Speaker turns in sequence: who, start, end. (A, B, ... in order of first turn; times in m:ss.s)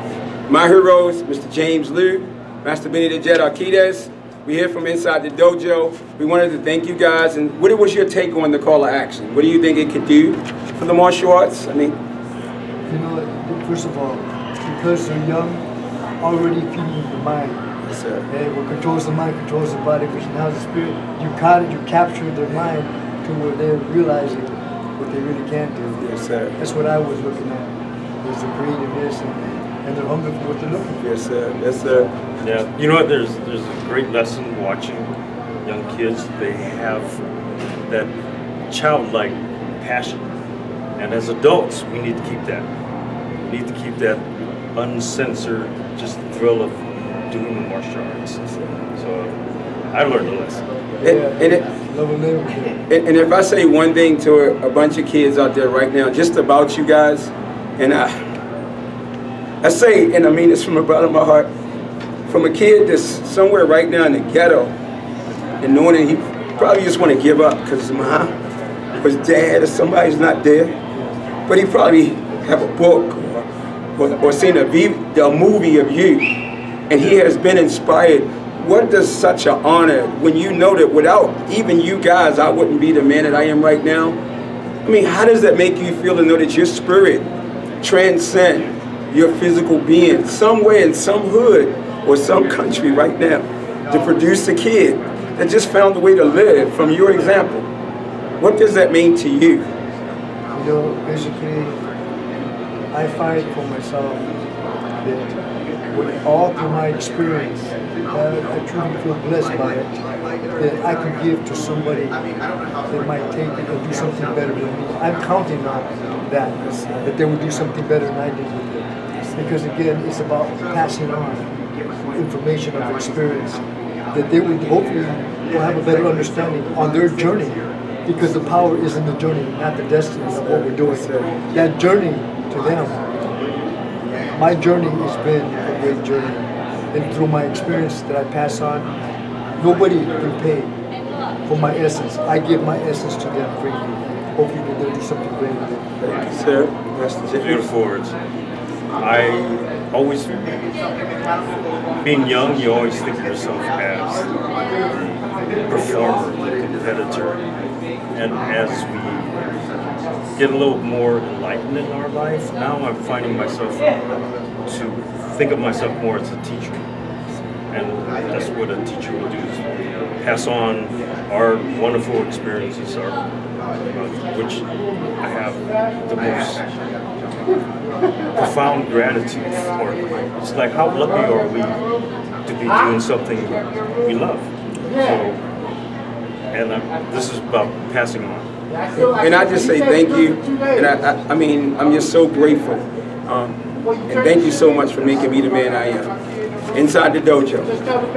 0:00.5-0:12.0 A
0:12.9-0:15.6 B
0:16.2-0:17.6 B
0:17.8-0:18.3 A
0:18.3-0:31.1 B
0:26.0-0:26.6 A
0:31.0-0:32.1 A
0:32.4-0:35.1 C
0:35.6-0:37.2 C
0:37.9-0:38.1 C
0:38.7-0:40.2 C
0:41.0-0:42.7 C
0:43.5-0:44.2 C
0:44.8-0:49.4 C
0:49.9-0:50.6 C
0:51.0-0:51.6 A
0:51.0-0:52.8 B
0:52.9-0:58.2 A
0:59.6-1:01.5 A
1:02.3-1:04.8 A
1:05.6-1:08.3 A
1:09.0-1:10.8 A
1:11.5-1:24.2 A
1:24.8-1:27.3 A
1:27.8-1:37.7 A
1:38.4-1:39.7 A
1:40.5-1:41.8 B
1:42.9-1:44.4 B
1:45.0-1:45.4 B
1:45.9-1:50.0 B
1:50.6-1:52.2 B
1:52.9-2:13.0 B
2:10.4-2:11.4 A
2:14.3-2:18.9 B
2:19.6-2:20.7 B
2:21.5-2:25.9 B
2:26.0-2:27.7 A
2:27.4-2:28.2 C
2:29.0-2:30.6 C
2:32.0-2:37.4 C
2:38.1-2:39.4 C
2:40.4-2:44.0 C
2:44.7-2:46.8 C
2:47.7-2:49.6 C
2:50.2-2:53.2 C
2:53.9-2:56.6 C
2:58.3-3:01.9 C
3:02.4-3:05.4 C
3:06.5-3:08.5 C
3:09.0-3:16.2 A
3:16.7-3:17.8 A